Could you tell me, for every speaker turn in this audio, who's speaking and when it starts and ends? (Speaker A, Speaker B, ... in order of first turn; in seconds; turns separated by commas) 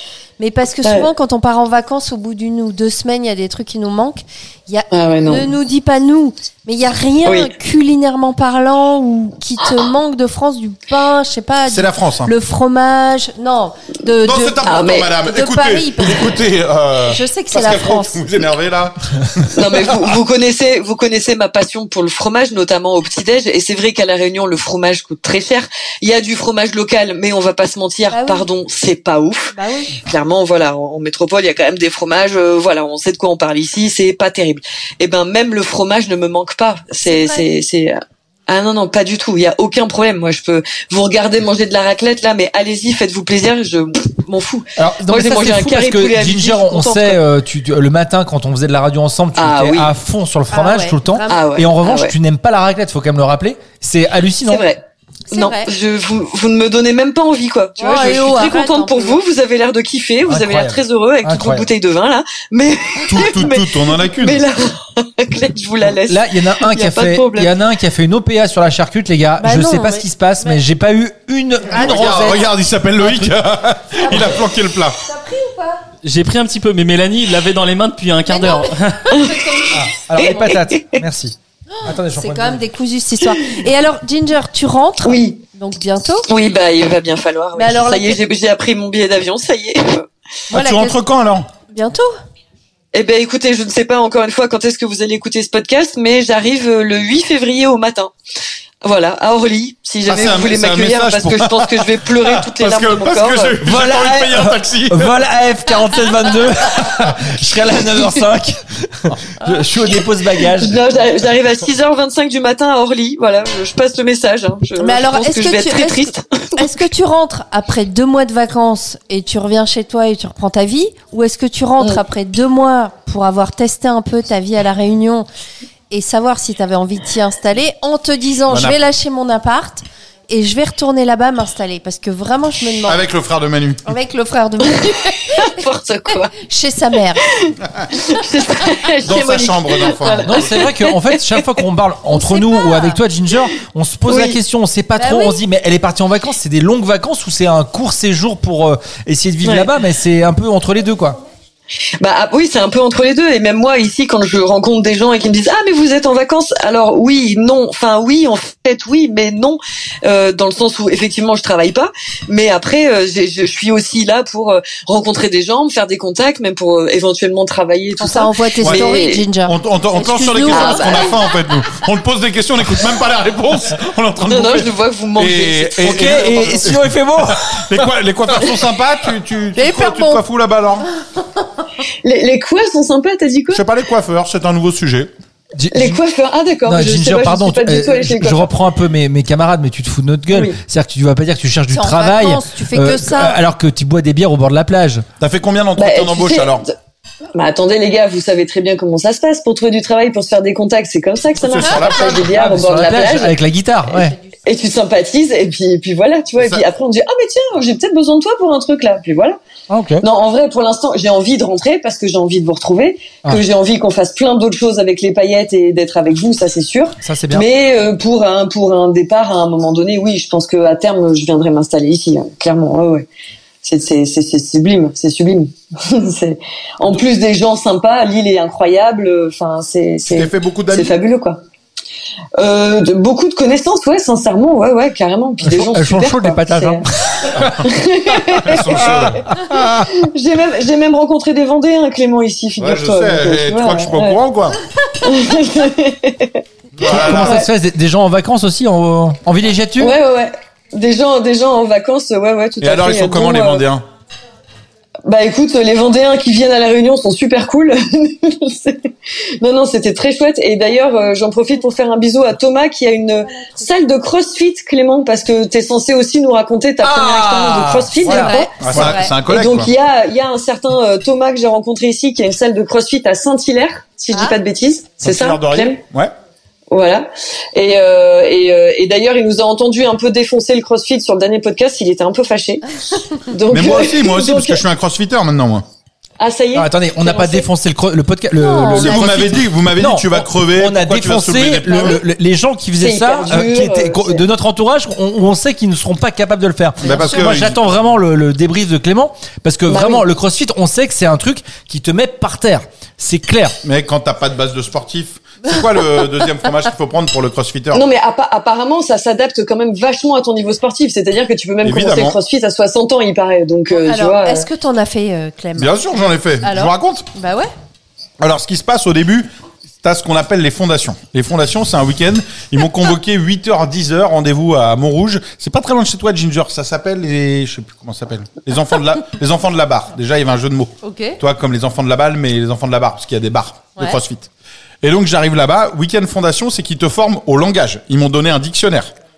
Speaker A: 0.4-16.3, Speaker B: 0.8-1.1, Speaker B: 4.9-5.5, Speaker C: 11.7-12.3, Speaker C: 14.2-20.2, Speaker B: 14.6-15.1, Speaker A: 17.0-18.2, Speaker B: 19.5-47.2, Speaker A: 28.1-28.5, Speaker A: 29.5-30.0, Speaker A: 37.0-37.5, Speaker D: 44.8-54.6, Speaker B: 49.4-49.9, Speaker A: 50.5-51.4, Speaker B: 51.3-52.1, Speaker B: 54.5-67.5, Speaker A: 55.3-55.7, Speaker A: 57.8-59.2, Speaker D: 60.3-61.7, Speaker C: 63.1-64.5, Speaker D: 66.0-73.3, Speaker A: 69.4-70.6, Speaker C: 71.7-75.0, Speaker A: 74.0-75.8, Speaker E: 76.0-79.1, Speaker A: 78.3-80.5, Speaker B: 79.1-79.6, Speaker D: 79.7-82.6, Speaker B: 80.2-80.5, Speaker A: 81.7-86.3, Speaker B: 85.0-85.4, Speaker B: 86.3-90.1, Speaker A: 87.5-88.2, Speaker A: 90.5-91.0, Speaker C: 90.5-91.5, Speaker A: 91.7-92.1, Speaker B: 92.9-98.1, Speaker B: 98.8-103.6, Speaker C: 100.0-105.2, Speaker D: 103.6-110.8, Speaker B: 110.5-116.7, Speaker A: 114.8-125.3, Speaker A: 125.9-133.0, Speaker C: 128.5-128.8, Speaker C: 132.8-133.9, Speaker A: 133.8-135.6, Speaker B: 134.7-136.3, Speaker A: 136.4-137.4, Speaker B: 137.3-141.4, Speaker C: 139.0-140.5, Speaker D: 140.2-151.2, Speaker A: 142.1-143.0, Speaker B: 144.1-144.4, Speaker A: 145.0-145.4, Speaker B: 149.4-149.7, Speaker B: 152.0-169.2, Speaker A: 168.0-171.2, Speaker C: 168.6-168.9, Speaker C: 169.4-180.9, Speaker B: 170.5-171.1, Speaker B: 174.3-176.4, Speaker D: 175.8-177.8, Speaker A: 179.5-180.2, Speaker B: 182.0-183.6, Speaker C: 183.5-185.1, Speaker D: 185.5-186.0, Speaker B: 185.7-188.5, Speaker D: 186.7-195.1, Speaker B: 190.3-190.6, Speaker A: 191.7-193.4, Speaker C: 195.2-196.7, Speaker B: 195.8-196.7, Speaker B: 197.3-203.4, Speaker C: 201.3-202.3, Speaker A: 201.6-201.9, Speaker D: 202.0-204.2, Speaker A: 204.0-204.3, Speaker B: 204.4-209.4, Speaker C: 206.4-206.6, Speaker D: 209.7-210.0, Speaker B: 210.0-223.1, Speaker D: 217.0-217.5, Speaker B: 223.6-231.4, Speaker C: 230.1-230.9, Speaker B: 232.4-236.9, Speaker D: 235.4-237.7, Speaker C: 237.3-237.7, Speaker B: 237.6-244.2, Speaker C: 238.4-239.4, Speaker D: 239.4-239.9, Speaker C: 242.6-244.6, Speaker B: 245.0-247.4, Speaker C: 246.7-247.4, Speaker D: 246.8-249.9, Speaker B: 249.8-253.6, Speaker C: 252.6-253.8, Speaker B: 255.1-275.8, Speaker D: 266.8-268.9, Speaker A: 268.1-269.1, Speaker C: 268.2-269.7, Speaker A: 274.1-274.4, Speaker C: 275.0-276.1, Speaker B: 276.7-284.6, Speaker C: 283.5-285.6, Speaker B: 286.2-287.5, Speaker D: 286.5-303.6, Speaker A: 288.4-289.2, Speaker C: 288.7-292.0, Speaker B: 292.8-294.2, Speaker C: 296.8-297.6, Speaker B: 299.7-300.1, Speaker C: 303.6-307.9, Speaker B: 307.7-314.5, Speaker C: 311.6-312.2, Speaker A: 313.7-315.8, Speaker C: 315.6-317.1, Speaker A: 316.4-317.5, Speaker C: 318.2-319.3, Speaker C: 319.8-334.3, Speaker A: 330.8-331.2, Speaker C: 334.8-338.9